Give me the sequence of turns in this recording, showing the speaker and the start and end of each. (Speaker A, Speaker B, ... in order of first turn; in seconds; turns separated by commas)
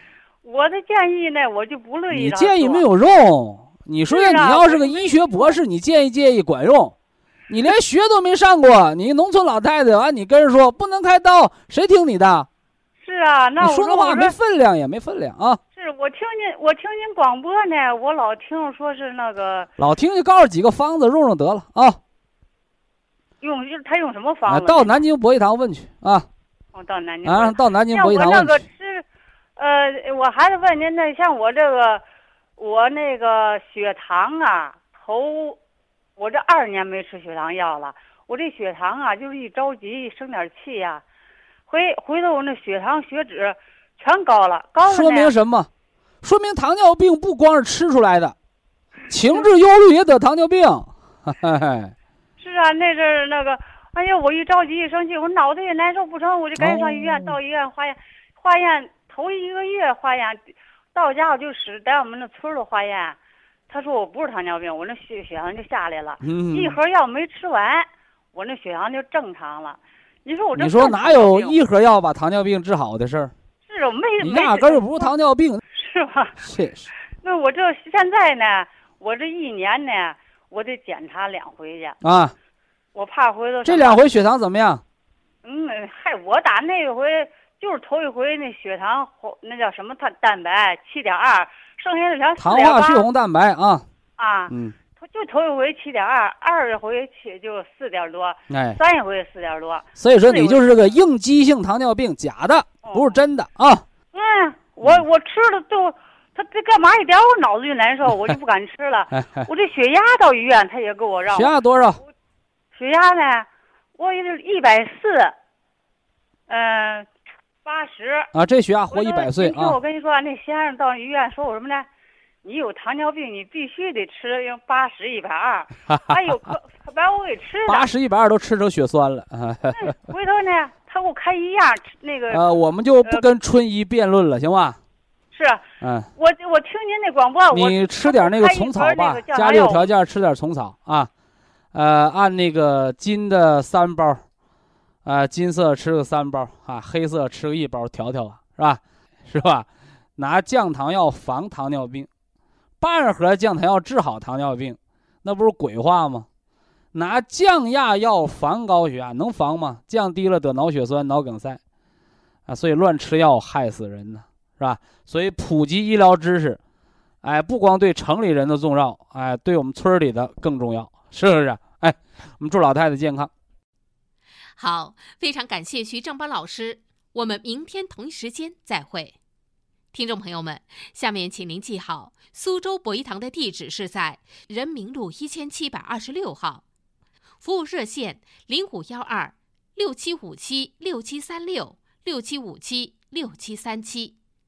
Speaker A: 0.4-2.8, Speaker B: 2.1-6.9, Speaker A: 4.1-5.6, Speaker B: 7.5-12.5, Speaker A: 13.0-14.3, Speaker B: 13.6-15.6, Speaker A: 15.7-19.7, Speaker B: 19.8-22.0, Speaker A: 23.4-25.0, Speaker B: 24.5-26.3, Speaker A: 26.7-29.1, Speaker B: 27.2-28.6, Speaker A: 29.6-32.0, Speaker A: 32.6-35.6, Speaker A: 36.2-41.0, Speaker A: 41.7-45.3, Speaker B: 44.9-45.7, Speaker B: 46.2-48.3, Speaker B: 49.1-51.9, Speaker A: 52.4-60.4, Speaker B: 56.6-57.4, Speaker A: 60.9-63.2, Speaker A: 63.7-71.6, Speaker B: 66.2-66.8, Speaker B: 70.5-73.3, Speaker A: 73.7-75.1, Speaker B: 74.2-75.6, Speaker A: 75.7-76.4, Speaker B: 76.4-76.9, Speaker A: 77.2-82.0, Speaker B: 82.0-82.3, Speaker A: 82.9-84.0, Speaker B: 83.6-84.8, Speaker A: 85.4-93.1, Speaker B: 92.4-93.8, Speaker A: 94.2-100.9, Speaker B: 94.5-94.8, Speaker B: 98.5-98.8, Speaker B: 100.0-103.8, Speaker A: 102.8-103.2, Speaker A: 104.1-111.5, Speaker B: 109.1-109.5, Speaker B: 111.3-112.0, Speaker A: 112.7-115.3, Speaker A: 116.5-117.1, Speaker A: 117.6-118.3, Speaker B: 118.3-119.8, Speaker A: 118.9-121.9, Speaker A: 122.4-127.9, Speaker B: 125.9-126.5, Speaker B: 127.7-129.9, Speaker A: 129.7-132.4, Speaker B: 132.3-134.8, Speaker A: 135.3-135.6, Speaker B: 135.8-136.1, Speaker A: 136.2-139.9, Speaker B: 137.5-141.1, Speaker B: 141.7-144.2, Speaker B: 145.0-152.1, Speaker B: 152.8-156.3, Speaker B: 156.9-161.6, Speaker B: 162.5-166.6, Speaker B: 167.2-173.3, Speaker C: 174.6-179.2, Speaker C: 179.9-186.6, Speaker C: 187.4-194.1